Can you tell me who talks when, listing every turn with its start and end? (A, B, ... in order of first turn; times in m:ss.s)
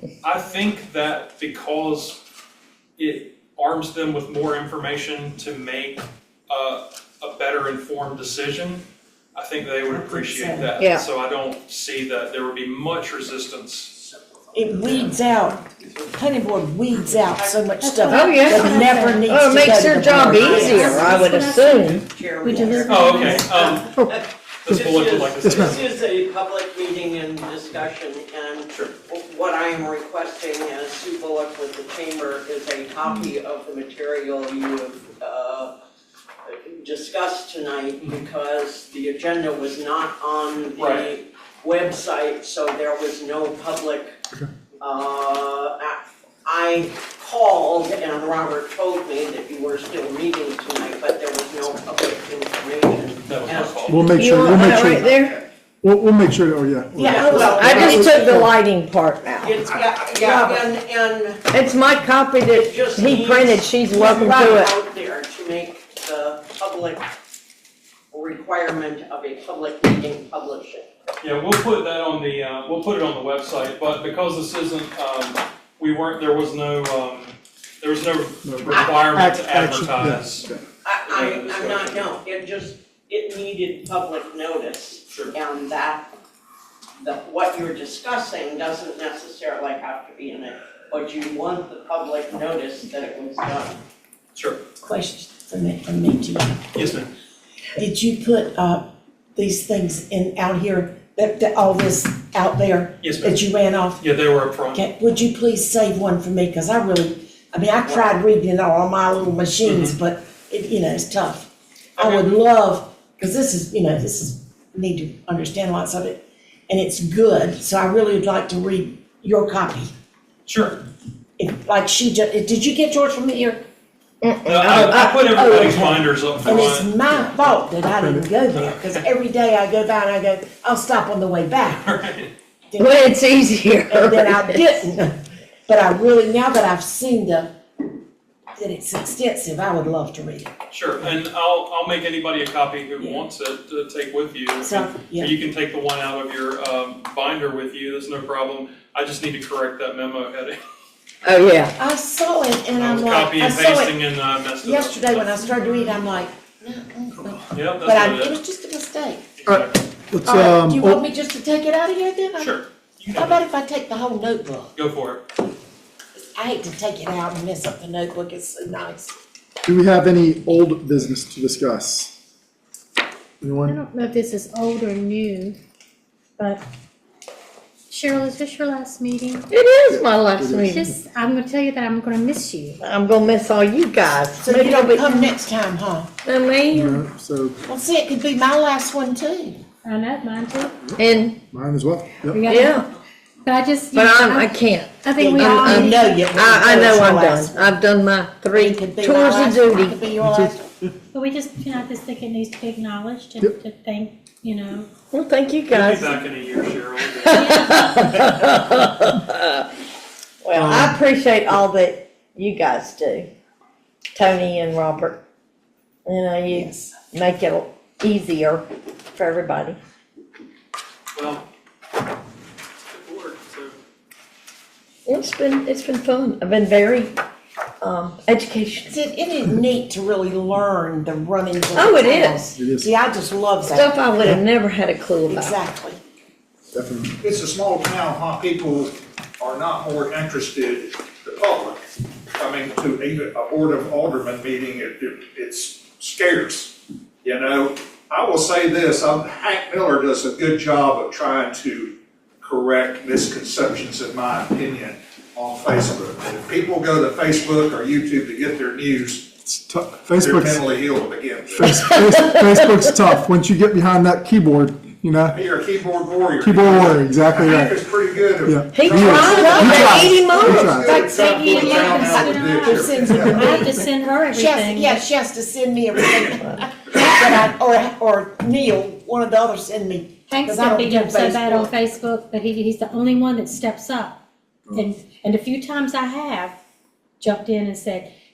0:00.2-0:02.2 A
0:03.0-0:14.0 A
0:09.9-0:10.7 B
0:10.8-0:11.0 C
0:14.5-0:21.3 B
0:17.3-0:17.7 D
0:17.8-0:19.3 E
0:18.1-0:22.0 C
0:20.1-0:23.5 E
0:20.3-0:35.7 D
0:22.6-0:22.8 B
0:22.8-0:24.0 A
0:24.6-0:25.8 A
0:25.4-0:25.8 F
0:36.5-0:44.1 D
0:40.8-0:41.1 A
0:44.8-0:54.5 D
0:53.3-0:54.1 A
0:53.9-0:55.2 F
0:54.2-0:55.4 C
0:54.8-0:55.4 G
0:55.8-0:58.5 F
0:57.0-0:58.4 B
0:57.0-0:58.2 D
0:57.4-0:59.6 C
0:59.4-1:01.4 D
0:59.7-1:00.1 G
1:00.2-1:00.6 B
1:01.5-1:04.7 C
1:02.5-1:07.1 D
1:04.0-1:04.7 B
1:08.1-1:10.8 D
1:11.2-1:20.5 A
1:18.4-1:20.6 F
1:20.8-1:26.1 D
1:21.0-1:22.1 A
1:27.0-1:33.8 D
1:34.3-1:34.6 A
1:34.8-1:36.6 B
1:36.7-1:37.1 A
1:37.8-1:38.8 B
1:39.3-1:44.0 B
1:43.0-1:43.4 A
1:44.0-1:44.8 A
1:44.7-1:59.9 B
1:47.8-1:48.1 A
1:49.6-1:50.0 A
1:52.0-1:52.4 A
2:00.4-2:00.8 A
2:01.4-2:03.6 B
2:04.2-2:05.7 C
2:04.4-2:06.9 A
2:04.7-2:11.9 B
2:08.6-2:09.0 A
2:11.8-2:12.3 A
2:12.7-2:13.1 B
2:12.8-2:14.8 C
2:13.9-2:17.5 B
2:18.6-2:20.5 B
2:20.7-2:30.6 A
2:23.0-2:23.2 B
2:24.6-2:25.3 B
2:31.2-2:31.7 C
2:31.8-2:34.0 B
2:32.7-2:36.0 A
2:34.6-2:39.3 B
2:37.2-2:38.4 A
2:39.4-2:39.8 A
2:39.5-2:41.0 F
2:40.2-2:42.6 B
2:42.4-2:43.4 A
2:43.1-2:44.7 B
2:44.7-2:45.2 A
2:46.1-2:49.1 B
2:49.6-2:52.1 F
2:53.4-2:53.8 F
2:53.6-2:55.6 E
2:56.4-2:56.6 E
2:57.9-2:59.5 E
2:59.5-3:00.9 C
2:59.9-3:01.0 F
3:00.7-3:02.8 E
3:02.8-3:05.4 C
3:04.4-3:06.1 B
3:06.2-3:07.0 C
3:06.7-3:07.6 F
3:07.7-3:09.6 B
3:09.8-3:10.7 E
3:10.9-3:12.5 F
3:11.0-3:11.4 C
3:12.3-3:12.8 E
3:12.4-3:12.8 C
3:13.4-3:16.3 E
3:13.9-3:20.0 C
3:15.2-3:17.7 B
3:18.5-3:20.6 B
3:20.2-3:20.5 F
3:21.1-3:24.9 E
3:25.1-3:26.2 C
3:25.7-3:27.9 A
3:27.2-3:29.6 C
3:27.3-3:28.2 E
3:30.4-3:33.3 C
3:30.6-3:30.9 F
3:34.1-3:35.2 C
3:36.0-3:39.8 C
3:36.5-3:36.9 B
3:41.1-3:41.4 A
3:42.9-3:43.8 A
3:45.0-3:47.1 C
3:47.8-3:49.0 C
3:48.9-3:54.1 B
3:51.7-3:52.5 C
3:52.5-3:52.9 F
3:53.6-3:55.6 C
3:55.3-3:56.0 B
3:56.7-3:57.2 F
3:57.2-4:19.4 G
4:19.4-4:20.7 F
4:20.1-4:21.8 G
4:21.5-4:25.4 F
4:21.7-4:22.8 C
4:25.3-4:33.5 G
4:26.4-4:27.8 F
4:28.4-4:31.0 F
4:28.7-4:30.6 C
4:29.1-4:41.7 B
4:30.8-4:35.0 E
4:33.1-4:33.5 F
4:40.3-4:44.2 E
4:44.7-4:46.6 E
4:47.2-4:48.1 E